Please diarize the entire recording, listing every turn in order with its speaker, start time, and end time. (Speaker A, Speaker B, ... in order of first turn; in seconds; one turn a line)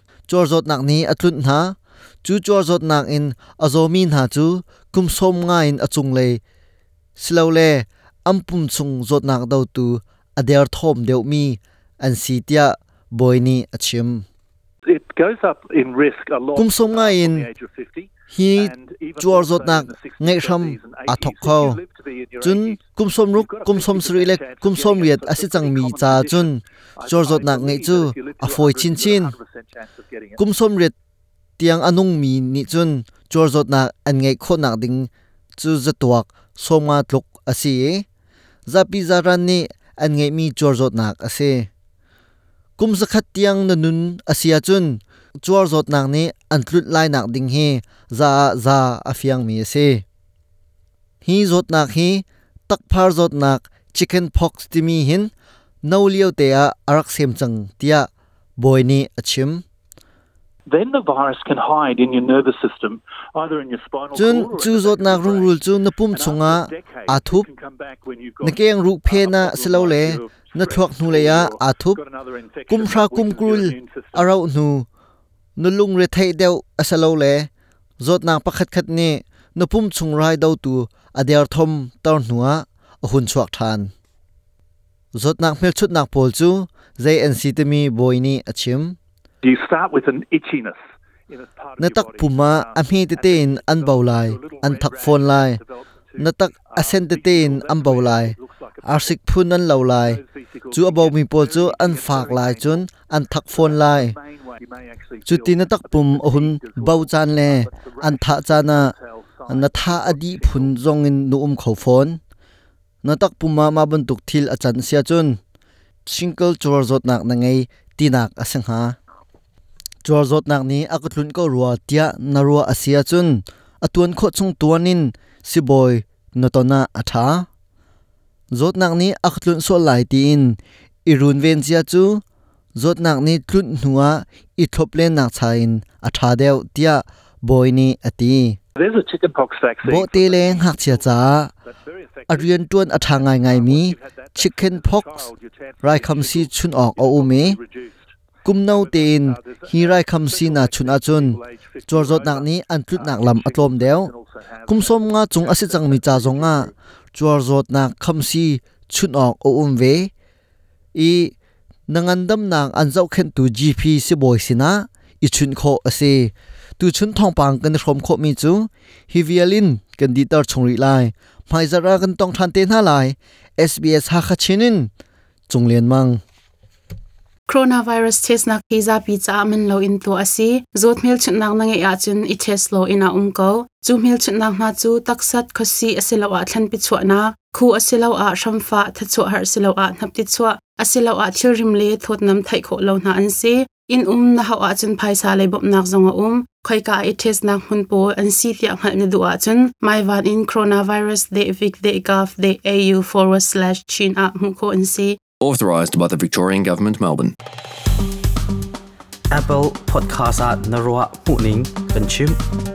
Speaker A: 0.3-6.4
Speaker A: 7.2-14.2
Speaker B: 14.8-22.8
Speaker A: 16.6-17.5
Speaker A: 18.3-21.8
Speaker A: 22.4-29.3
Speaker B: 23.3-30.4
Speaker A: 30.4-30.9
Speaker A: 31.6-38.0
Speaker A: 38.6-41.7
Speaker A: 42.8-50.0
Speaker A: 51.2-55.3
Speaker A: 55.8-59.6
Speaker B: 60.7-65.6
Speaker A: 64.1-67.5
Speaker B: 66.1-74.2
Speaker A: 68.4-72.0
Speaker A: 72.7-74.9
Speaker A: 75.6-83.9
Speaker A: 85.1-89.0
Speaker B: 89.4-99.2
Speaker A: 91.8-95.6
Speaker A: 96.2-100.2
Speaker B: 100.0-102.9
Speaker A: 100.7-104.2
Speaker B: 103.5-110.7
Speaker A: 105.2-108.9
Speaker A: 109.5-112.2
Speaker A: 113.0-115.4
Speaker A: 116.0-119.0
Speaker A: 120.0-127.5
Speaker A: 128.5-132.2
Speaker A: 132.7-138.6
Speaker B: 138.8-141.1
Speaker A: 139.8-141.5
Speaker B: 141.7-142.5
Speaker A: 142.3-145.3
Speaker B: 143.1-148.0
Speaker A: 145.8-147.6
Speaker A: 148.4-154.1
Speaker B: 148.7-156.7
Speaker A: 154.7-160.1
Speaker A: 160.9-161.3
Speaker A: 161.9-174.9
Speaker A: 175.5-176.2
Speaker C: 177.5-205.2
Speaker D: 205.4-207.3
Speaker E: 209.3-212.4